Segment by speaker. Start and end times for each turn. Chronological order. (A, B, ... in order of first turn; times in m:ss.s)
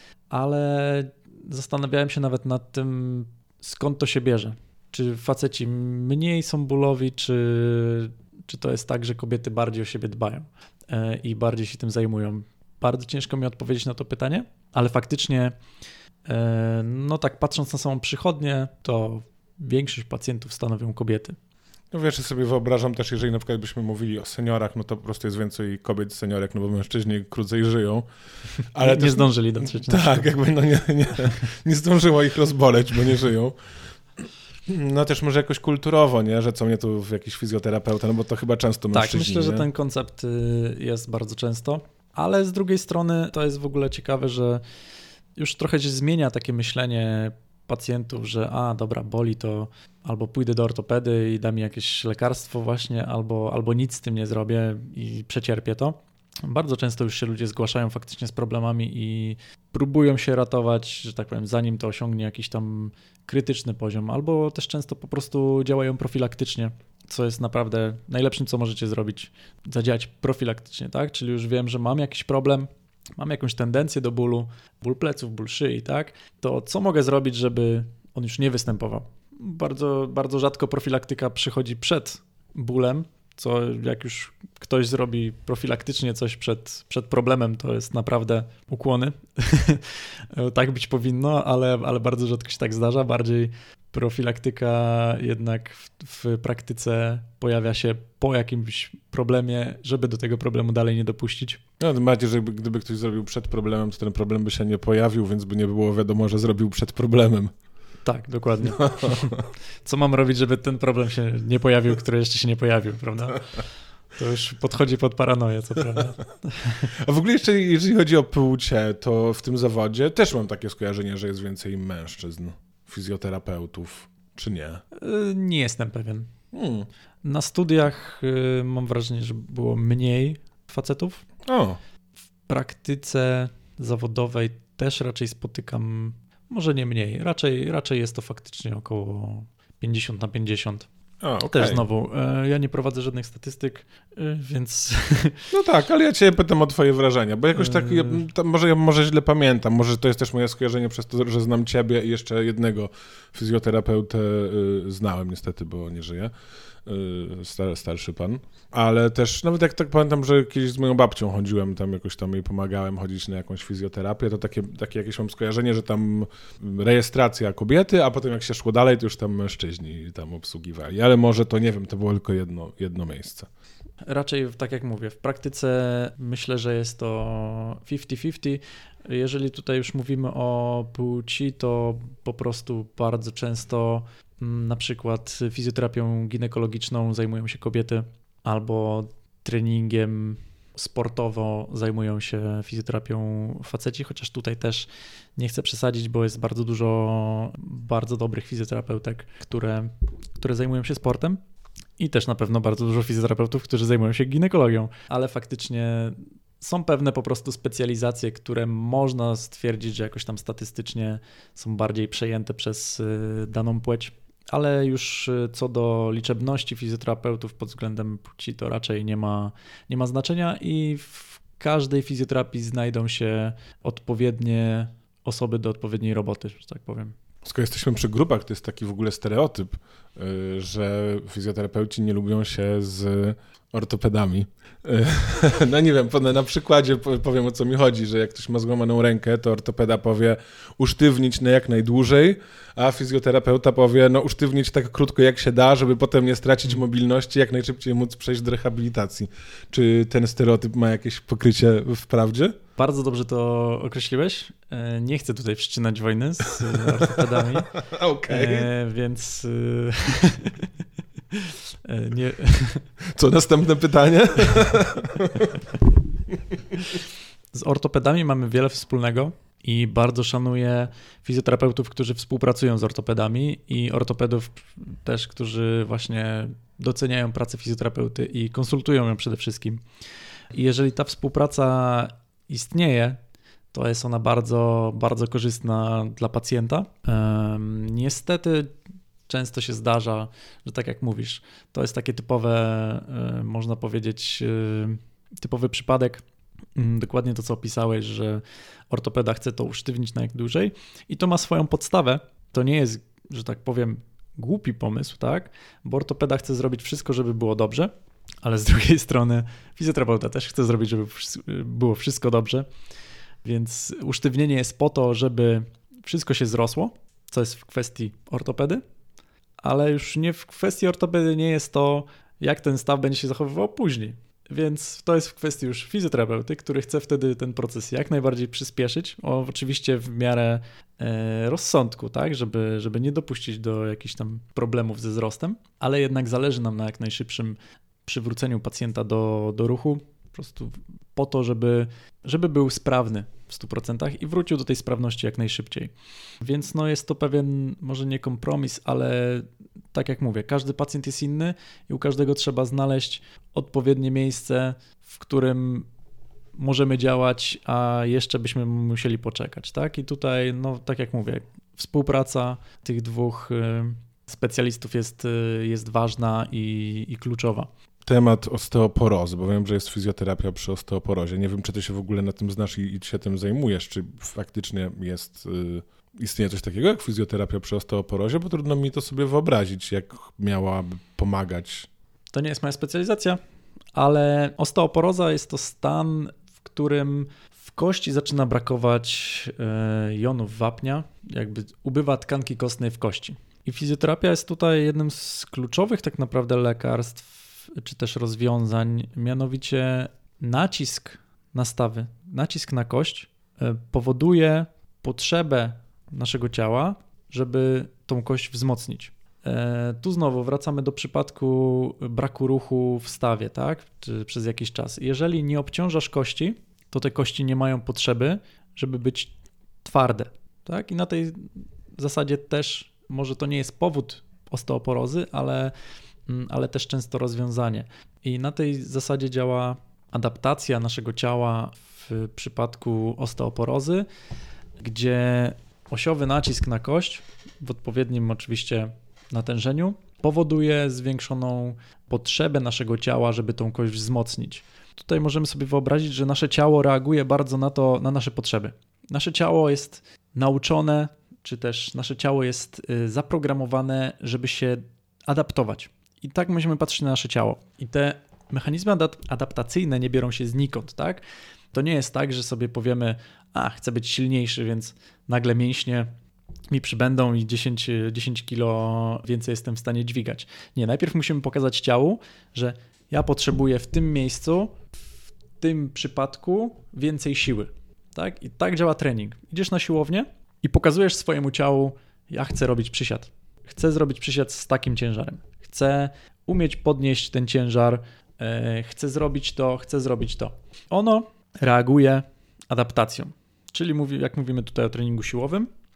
0:00.3-0:15.6 A
0:16.3-0:21.4 A
0:21.9-0:28.1 B
0:28.7-0:33.6 B
0:28.8-0:30.3 A
0:34.2-0:39.7 B
0:38.9-0:44.6 A
0:45.4-1:41.6 A
1:41.8-1:47.5 B
1:48.0-1:56.9 A
1:48.6-1:49.5 B
1:56.9-2:04.8 B
2:04.9-2:06.3 A
2:06.5-2:06.9 B
2:07.2-2:11.2 A
2:11.5-2:11.8 B
2:12.5-2:20.9 A
2:21.2-2:21.8 B
2:21.4-2:25.5 A
2:25.5-2:36.3 B
2:27.6-2:28.3 A
2:36.8-2:53.5 B
2:54.1-3:21.4 A
3:22.0-3:47.2 A
3:47.4-4:12.6 B
4:12.8-4:17.7 A
4:16.7-4:18.7 B
4:18.3-4:20.7 A
4:21.3-4:22.9 A
4:23.1-4:25.8 B
4:27.5-4:39.8 A
4:40.5-4:43.2 A
4:43.7-4:48.7 A
4:49.3-4:56.2 A
4:56.8-5:07.9 A
5:08.4-5:12.7 A
5:13.4-5:18.8 A
5:19.6-5:55.9 A
5:56.6-6:07.7 A
6:08.1-6:21.9 B
6:22.3-6:23.4 A
6:24.0-6:59.3 A
6:59.8-7:05.7 A
7:06.3-7:14.1 A
7:14.8-7:46.1 A
7:46.7-7:54.8 A
7:55.6-8:15.7 A